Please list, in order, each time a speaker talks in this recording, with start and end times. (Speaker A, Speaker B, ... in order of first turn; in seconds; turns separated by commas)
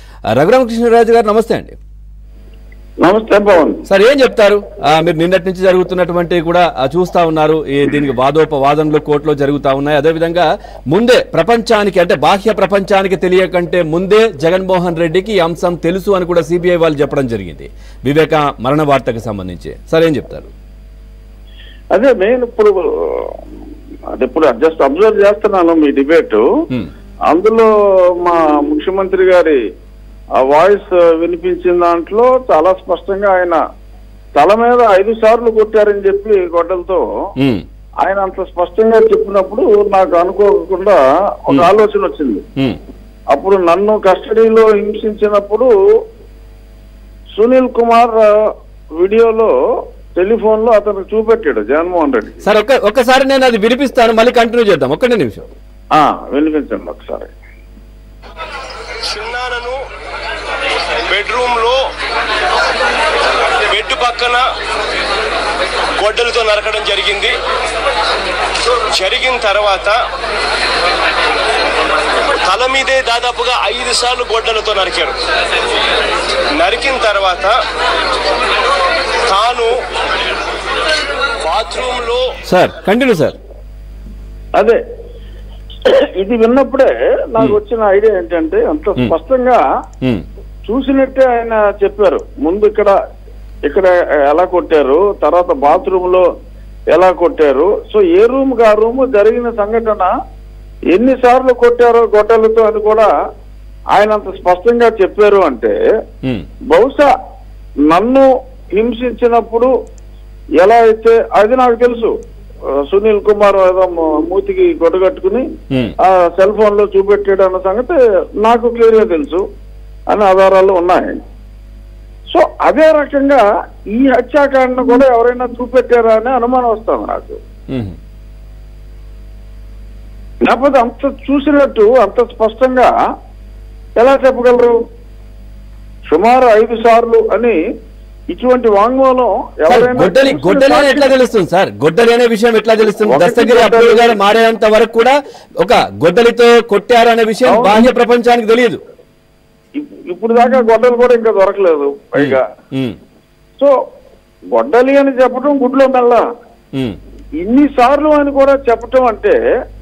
Speaker A: 0.3-1.8, Speaker B: 3.0-3.8, Speaker A: 3.9-20.5, Speaker B: 21.9-23.4, Speaker B: 24.2-26.4, Speaker B: 27.3-27.7, Speaker B: 28.2-29.6, Speaker B: 30.4-33.6, Speaker B: 34.4-37.0, Speaker A: 37.4-37.6, Speaker B: 38.0-42.4, Speaker B: 43.3-45.7, Speaker B: 47.4-48.3, Speaker B: 49.0-49.5, Speaker B: 50.1-52.4, Speaker A: 52.4-55.5, Speaker B: 56.0-57.3, Speaker C: 59.0-59.8, Speaker C: 61.1-61.8, Speaker C: 63.6-64.5, Speaker C: 66.0-67.4, Speaker C: 68.9-70.0, Speaker C: 72.4-75.2, Speaker C: 76.5-77.6, Speaker C: 79.3-79.8, Speaker C: 81.4-82.4, Speaker A: 82.5-83.4, Speaker B: 85.9-89.6, Speaker B: 90.7-93.0, Speaker B: 93.7-96.3, Speaker B: 96.9-100.1, Speaker B: 100.9-103.1, Speaker B: 103.9-105.8, Speaker B: 106.7-107.1, Speaker B: 107.9-109.7, Speaker B: 110.6-112.1, Speaker B: 112.8-115.5, Speaker B: 116.0-119.4, Speaker B: 120.1-121.2, Speaker B: 122.3-127.4, Speaker A: 127.7-128.0, Speaker B: 130.4-132.9, Speaker B: 134.0-134.8, Speaker B: 136.1-137.6, Speaker B: 138.3-141.1, Speaker A: 139.7-148.8, Speaker B: 143.0-144.2, Speaker B: 147.5-147.8, Speaker B: 149.8-152.4, Speaker A: 152.2-153.0, Speaker B: 154.6-156.2, Speaker B: 157.4-159.4